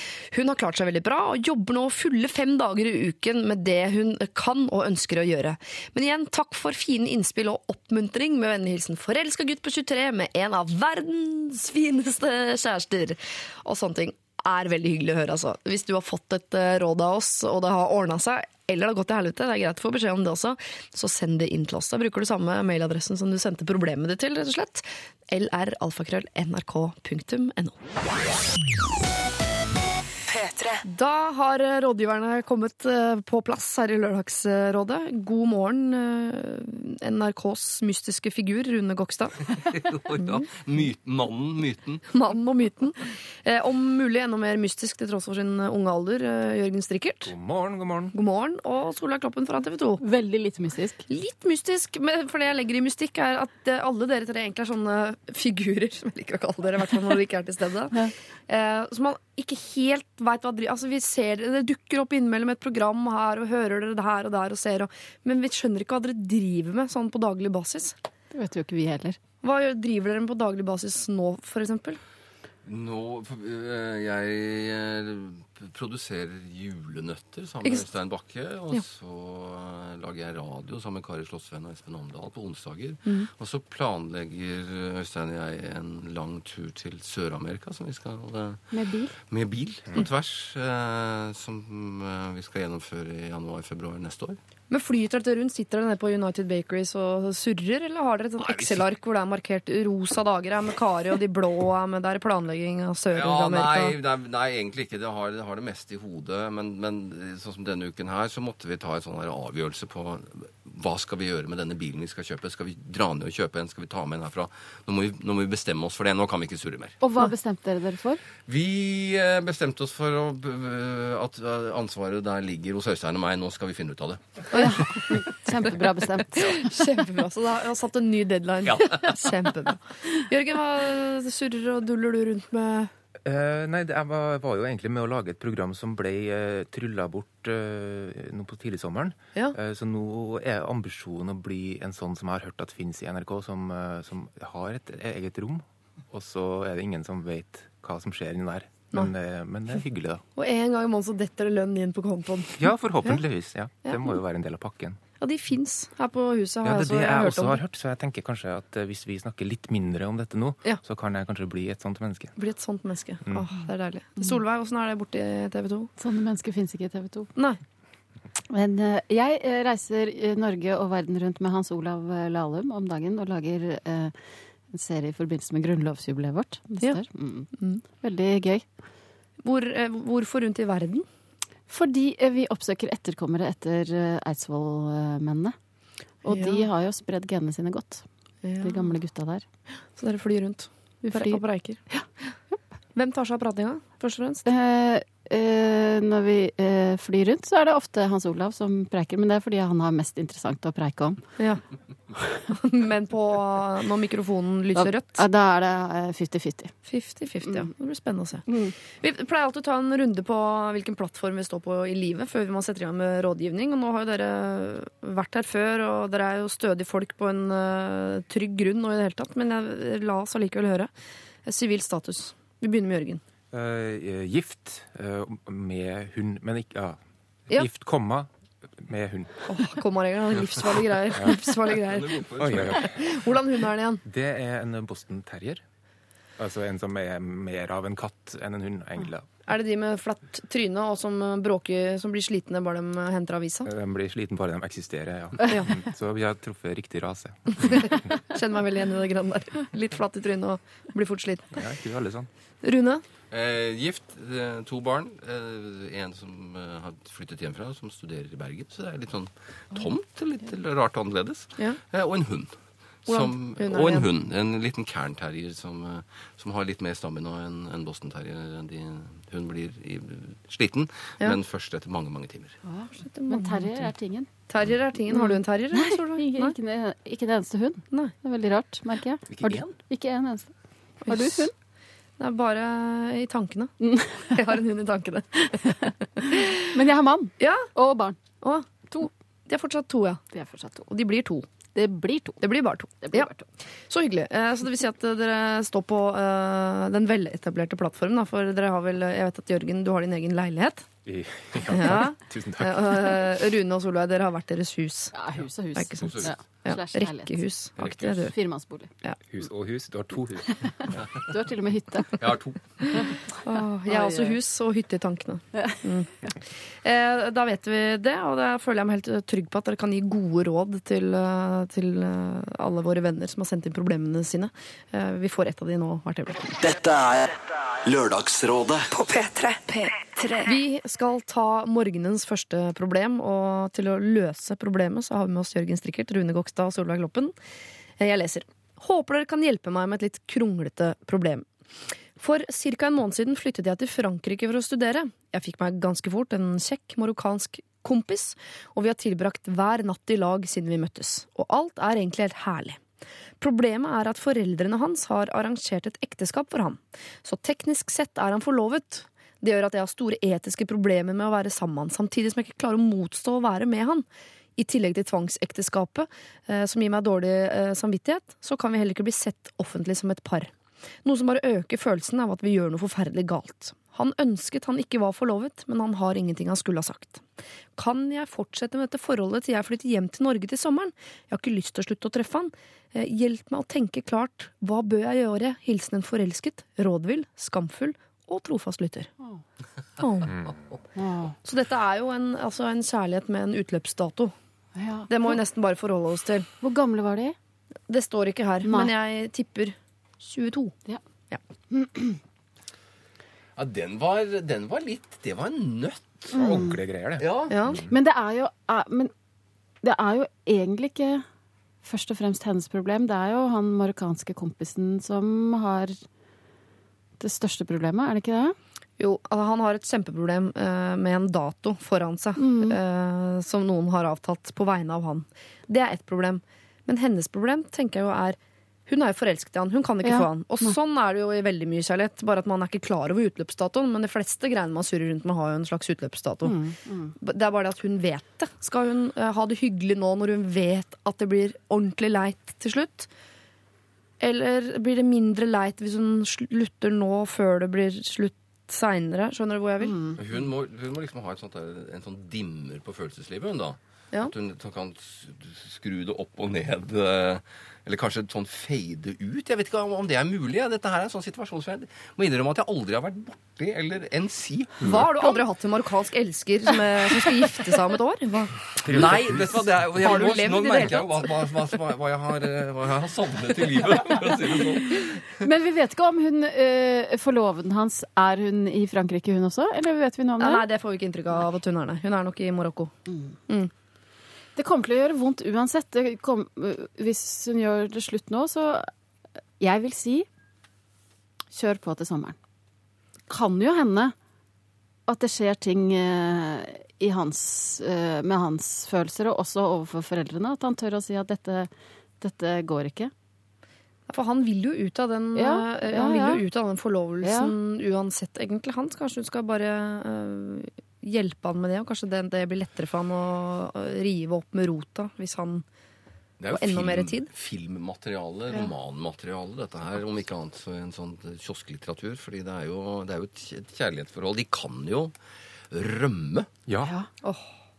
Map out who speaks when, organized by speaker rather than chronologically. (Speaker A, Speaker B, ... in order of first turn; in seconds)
Speaker A: 0.3-27.8, 30.9-39.4, 40.2-40.5, 42.1-47.3, 48.1-50.0, 51.1-67.9, 69.4-72.0, 94.7-104.0, 124.5-125.2, 126.4-132.9, 150.3-153.2, 153.8-154.1, 155.2-157.6, 162.3-165.9, 167.3-167.6, 177.6-177.8, 179.4-181.1, 186.2-186.7, 188.4-188.9, 189.9-191.8, 192.9-194.4, 202.5-205.2, 206.8-220.9, 221.4-223.2, 229.5-232.2, 232.8-234.0, 239.5-243.7, 247.7-251.6, 252.6-253.0, 263.1-264.1, 273.0-273.9, 274.5-276.5, 281.0-281.5, 282.2-283.7, 284.3-286.7, 287.4-287.7, 288.4-288.7, 289.5-290.2, 290.9-291.5, 292.4-293.3, 293.9-300.9, 301.7-305.1, 305.8-308.3, 313.0-316.2, 316.8-326.5, 330.5-337.3, 338.0-341.5, 342.2-352.8, 353.4-364.1, 364.6-370.5, 371.0-377.2, 377.8-389.1, 390.0-390.4, 391.4-394.3, 395.1-396.5, 397.9-400.8, 407.5-407.8, 419.0-436.6, 437.2-443.1, 444.2-449.9, 464.8-468.7, 470.0-471.3, 480.4-482.9, 504.1-515.6, 516.5-517.3, 527.2-527.5
Speaker B: 30.3-30.8, 328.9-330.6
Speaker C: 39.6-42.0, 72.7-88.6, 89.2-94.4, 98.4-98.8, 103.1-117.0, 118.4-124.5, 128.7-129.1, 231.7-233.0, 253.3-272.6, 279.3-279.7, 306.0-306.3, 312.2-312.6, 403.6-407.5, 450.2-464.9, 468.9-475.2, 516.4-525.1, 525.7-526.5
Speaker D: 47.2-48.1, 133.2-150.2, 152.6-155.0, 156.6-162.3, 223.5-229.3, 231.1-231.4, 232.4-233.1, 234.1-235.6, 236.4-239.3, 243.6-248.0, 251.5-252.3, 301.0-303.2, 309.3-311.0, 390.3-390.6, 406.3-407.9, 468.8-469.7, 526.7-527.0
Speaker E: 50.0-51.0, 68.3-69.2, 88.7-89.2, 117.0-118.2, 124.5-126.5, 166.0-167.3, 168.5-174.1, 174.7-178.6, 181.7-185.5, 186.2-188.1, 188.6-189.4, 191.1-192.1, 194.4-201.2, 204.7-206.7, 208.5-208.7, 272.6-274.3, 275.1-280.5, 281.1-281.5, 283.8-284.4, 286.6-288.2, 290.3-290.9, 291.7-292.4, 293.0-293.4, 305.1-308.9, 311.3-312.3, 313.9-314.4, 315.5-316.4, 390.9-391.4, 394.7-395.4, 396.6-397.4, 398.6-398.9, 401.7-402.2, 406.3-406.8, 407.9-409.1, 409.8-411.2, 411.8-416.0, 417.2-418.6, 422.4-422.8, 430.0-430.7, 436.4-437.1, 449.8-450.2, 475.4-480.6, 483.1-483.3, 484.6-488.9, 489.6-490.3, 491.5-492.4, 493.3-494.1, 495.1-501.7, 502.2-503.1, 505.3-506.4, 507.2-507.5, 526.8-527.1
Speaker F: 326.6-328.9